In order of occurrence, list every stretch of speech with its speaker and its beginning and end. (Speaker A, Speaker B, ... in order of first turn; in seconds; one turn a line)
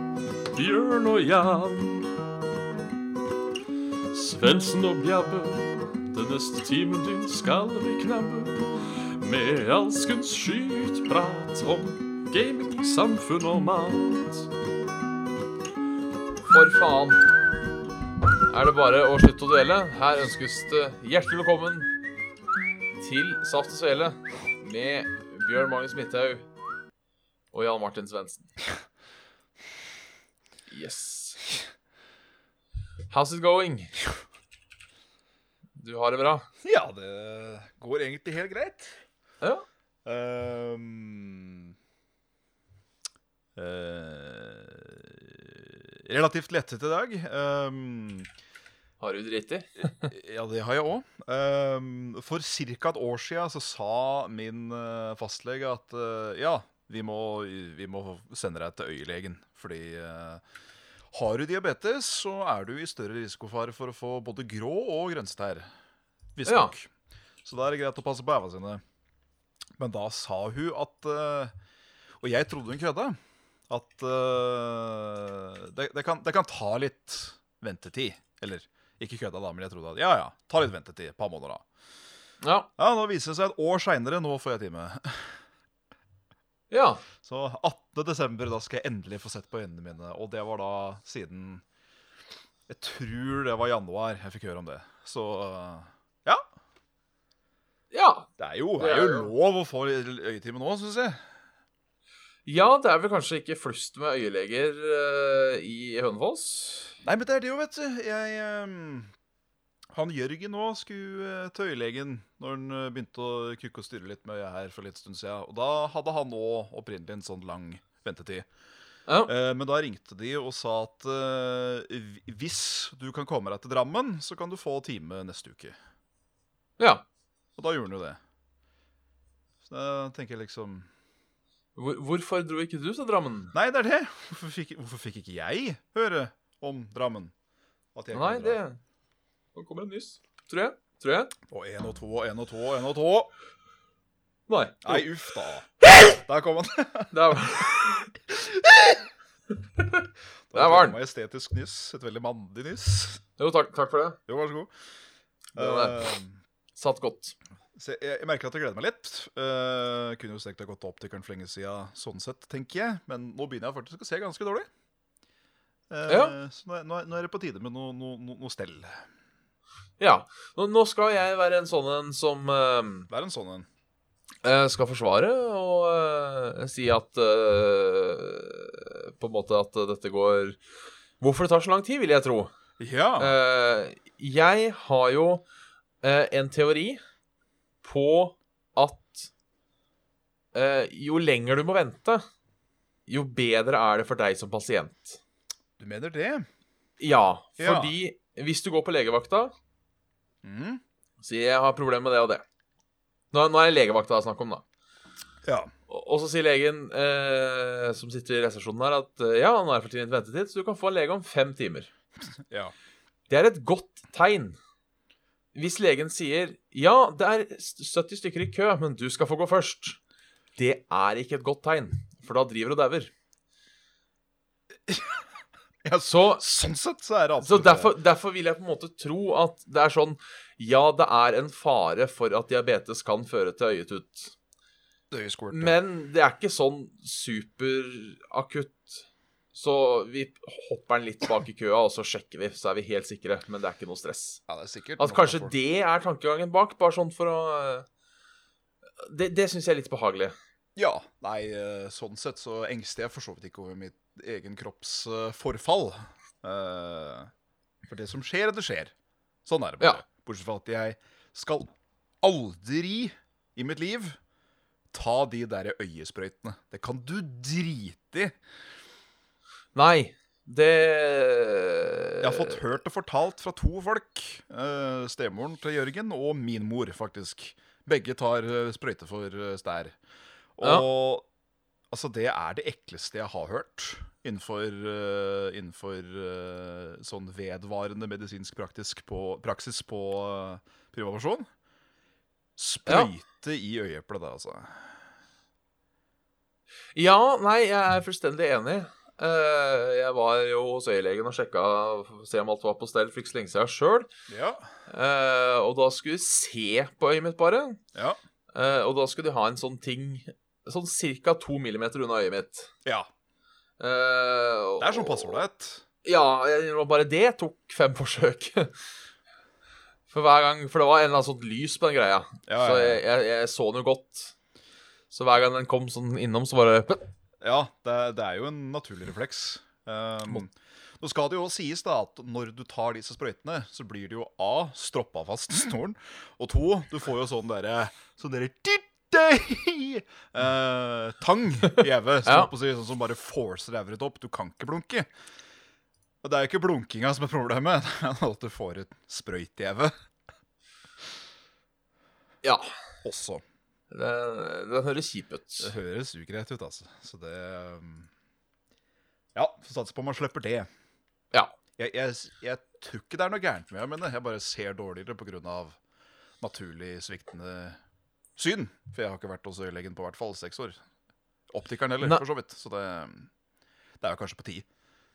Speaker A: 0.6-2.1
Speaker A: 4.1-8.7
Speaker A: 9.2-14.3
Speaker B: 16.4-17.2
Speaker B: 18.5-21.9
Speaker B: 23.0-26.5
Speaker B: 27.5-28.5
Speaker B: 30.7-31.4
Speaker B: 33.1-34.0
Speaker B: 35.8-36.5
Speaker C: 36.6-39.0
Speaker C: 40.0-41.7
Speaker C: 43.6-48.3
Speaker B: 49.0-50.1
Speaker C: 50.0-60.4
Speaker C: 61.1-65.7
Speaker C: 66.4-66.9
Speaker B: 66.5-66.7
Speaker C: 67.5-68.8
Speaker C: 69.8-71.5
Speaker C: 72.2-73.2
Speaker C: 73.7-81.6
Speaker B: 82.4-82.7
Speaker C: 82.8-85.4
Speaker B: 86.7-87.0
Speaker C: 87.2-91.6
Speaker C: 92.7-96.4
Speaker B: 97.9-99.3
Speaker C: 98.4-101.2
Speaker B: 102.5-107.0
Speaker C: 107.0-109.1
Speaker C: 109.9-118.5
Speaker C: 119.3-125.8
Speaker B: 126.8-127.0
Speaker C: 127.6-128.2
Speaker C: 129.6-130.9
Speaker B: 131.8-133.5
Speaker C: 133.5-137.3
Speaker C: 137.9-138.6
Speaker B: 138.1-138.8
Speaker B: 139.6-141.3
Speaker C: 141.5-143.3
Speaker B: 144.5-145.1
Speaker C: 144.8-149.1
Speaker B: 147.1-148.0
Speaker B: 149.8-151.0
Speaker C: 150.5-153.2
Speaker B: 153.4-154.2
Speaker C: 154.3-154.7
Speaker B: 155.6-156.1
Speaker C: 155.6-156.4
Speaker B: 156.8-157.4
Speaker C: 157.8-164.7
Speaker C: 165.9-169.0
Speaker B: 166.1-166.3
Speaker B: 170.0-173.1
Speaker C: 173.1-173.7
Speaker B: 174.4-180.6
Speaker B: 181.2-182.5
Speaker C: 182.8-183.4
Speaker B: 183.2-185.4
Speaker B: 186.0-187.0
Speaker B: 187.8-189.3
Speaker B: 190.5-192.2
Speaker B: 193.1-195.2
Speaker C: 195.8-196.5
Speaker B: 197.0-199.5
Speaker C: 197.6-198.0
Speaker C: 200.4-200.8
Speaker B: 201.2-202.4
Speaker B: 203.3-204.6
Speaker C: 205.4-205.7
Speaker B: 205.9-211.9
Speaker C: 212.5-212.7
Speaker B: 213.3-214.6
Speaker B: 215.5-220.0
Speaker B: 220.6-223.1
Speaker C: 224.9-225.2
Speaker C: 225.8-227.9
Speaker B: 226.0-226.4
Speaker B: 227.4-234.3
Speaker C: 235.1-235.8
Speaker B: 235.5-244.4
Speaker C: 244.5-245.5
Speaker B: 245.0-247.9
Speaker B: 249.0-250.3
Speaker C: 250.8-257.3
Speaker C: 257.9-258.9
Speaker C: 259.4-264.2
Speaker C: 264.9-268.4
Speaker B: 269.8-272.6
Speaker C: 272.2-280.0
Speaker C: 280.6-281.3
Speaker C: 281.9-291.5
Speaker C: 292.6-294.9
Speaker B: 296.9-304.1
Speaker C: 304.3-304.7
Speaker B: 304.9-307.8
Speaker C: 307.9-308.2
Speaker B: 308.5-312.7
Speaker B: 313.8-315.4
Speaker C: 314.8-315.8
Speaker B: 316.0-318.8
Speaker B: 320.1-324.3
Speaker C: 322.5-323.0
Speaker B: 325.1-327.1
Speaker C: 327.4-345.1
Speaker B: 342.2-342.5
Speaker C: 346.2-349.9
Speaker B: 352.4-352.7
Speaker C: 353.0-353.4
Speaker B: 353.9-355.7
Speaker C: 355.6-358.1
Speaker C: 359.4-360.7
Speaker C: 361.8-365.8
Speaker C: 366.4-367.8
Speaker C: 368.4-370.8
Speaker C: 371.5-373.3
Speaker C: 374.0-374.7